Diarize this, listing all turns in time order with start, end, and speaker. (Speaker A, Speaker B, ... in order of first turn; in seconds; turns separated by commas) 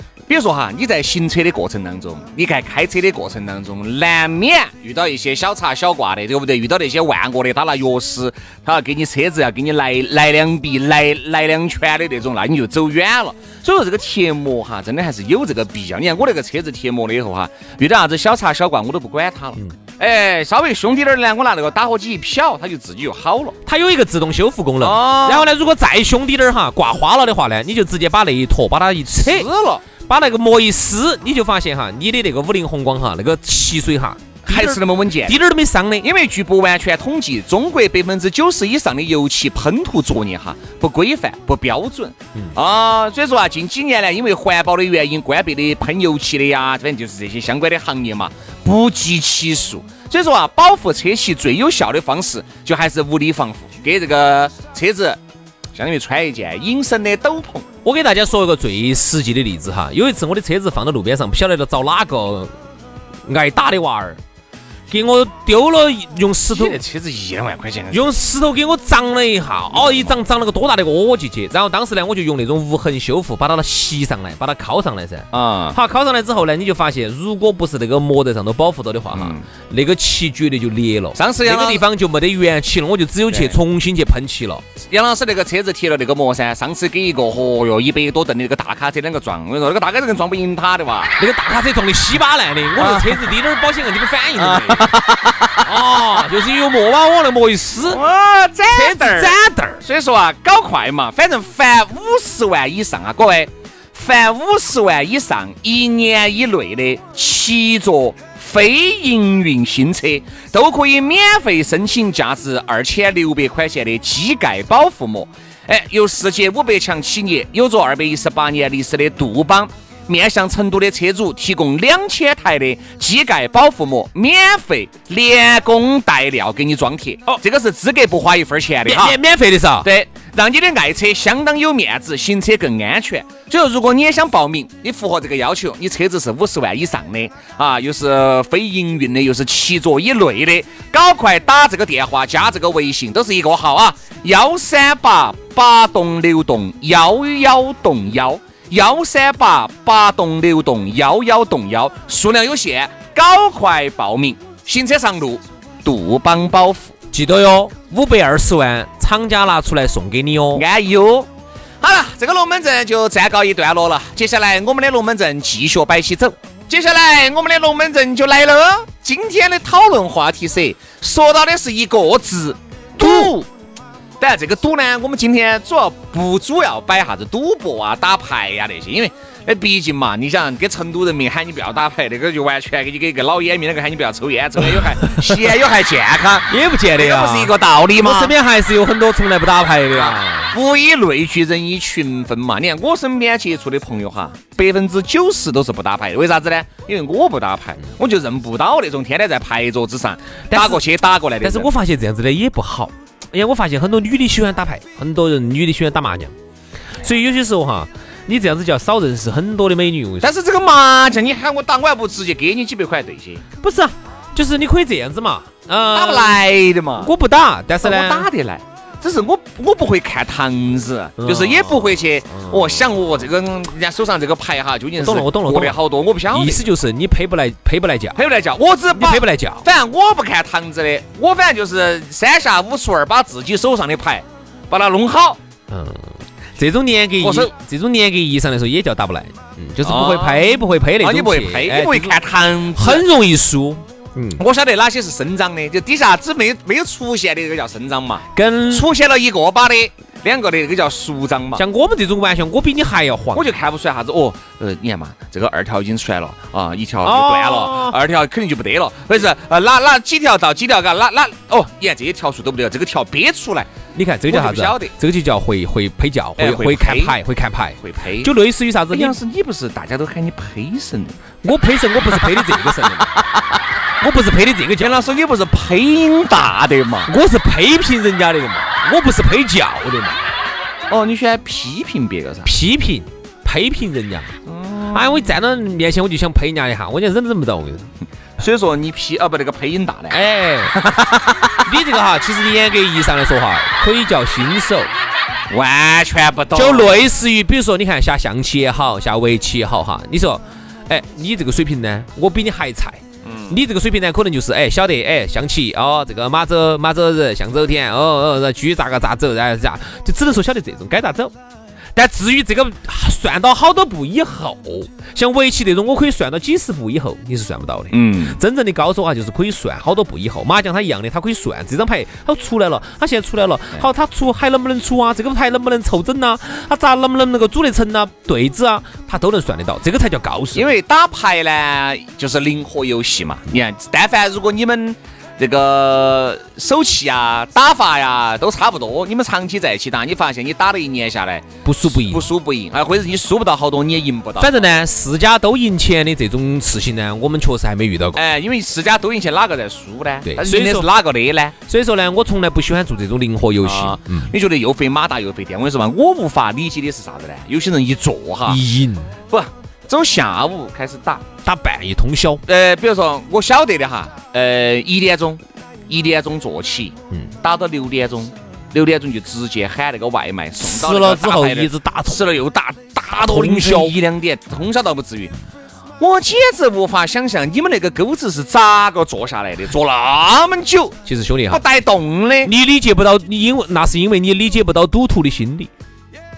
Speaker A: 0.3-23.6, Speaker B: 23.7-29.5, Speaker A: 24.8-25.5, Speaker A: 29.1-29.8, Speaker B: 30.1-36.1, Speaker A: 34.5-35.4, Speaker A: 36.0-55.2, Speaker A: 55.8-57.7, Speaker B: 57.8-62.5, Speaker B: 63.3-64.2, Speaker B: 64.9-66.8, Speaker A: 66.5-68.1, Speaker B: 67.9-84.7, Speaker A: 69.7-70.2, Speaker A: 75.3-75.8, Speaker A: 79.1-79.5, Speaker A: 81.2-81.9, Speaker A: 83.3-83.6, Speaker A: 84.9-91.2, Speaker B: 91.2-95.0, Speaker A: 92.8-93.2, Speaker A: 94.4-95.7, Speaker B: 95.6-98.0, Speaker A: 97.9-129.2, Speaker B: 98.7-99.8, Speaker B: 128.9-129.9, Speaker A: 129.8-156.9, Speaker B: 157.1-160.6, Speaker A: 160.5-161.3, Speaker A: 161.8-173.5, Speaker B: 173.0-173.3, Speaker A: 174.2-188.3, Speaker B: 186.5-190.5, Speaker A: 189.9-201.7, Speaker B: 200.5-200.8, Speaker B: 201.4-206.3, Speaker B: 207.0-210.3, Speaker A: 210.2-213.4, Speaker B: 213.6-216.4, Speaker A: 215.9-217.1, Speaker B: 217.0-218.3, Speaker A: 217.8-226.7, Speaker B: 221.2-222.8, Speaker B: 225.0-228.2, Speaker A: 228.2-235.4, Speaker B: 228.9-229.7, Speaker B: 235.7-242.2, Speaker A: 237.2-237.5, Speaker A: 239.8-243.1, Speaker B: 242.8-244.4, Speaker A: 244.4-251.6, Speaker B: 248.3-248.9, Speaker B: 251.6-253.5, Speaker A: 253.3-263.7, Speaker B: 257.0-258.0, Speaker B: 263.9-269.2, Speaker A: 264.3-264.9, Speaker A: 266.4-267.2, Speaker A: 267.8-268.3, Speaker A: 268.9-271.2, Speaker B: 271.4-273.2, Speaker A: 272.1-273.6, Speaker B: 274.0-275.0, Speaker A: 274.8-277.1, Speaker B: 277.1-280.2, Speaker A: 280.9-282.5, Speaker B: 282.4-284.4, Speaker A: 284.5-285.3, Speaker B: 284.9-287.9, Speaker A: 288.4-291.6, Speaker B: 290.1-290.8, Speaker B: 291.6-294.9, Speaker A: 295.5-297.1, Speaker B: 296.5-311.3, Speaker A: 303.2-303.6, Speaker B: 311.9-330.7, Speaker A: 317.9-318.4, Speaker A: 330.5-344.6, Speaker B: 341.6-342.3, Speaker B: 344.4-348.2, Speaker A: 348.1-351.5, Speaker B: 350.2-350.9, Speaker B: 351.7-354.3, Speaker A: 353.6-358.6, Speaker B: 358.5-359.1, Speaker A: 359.3-361.2, Speaker B: 361.4-362.4, Speaker A: 362.5-375.3, Speaker B: 370.6-372.3, Speaker B: 373.1-374.0, Speaker A: 376.0-382.5, Speaker B: 381.1-381.6, Speaker B: 382.4-385.7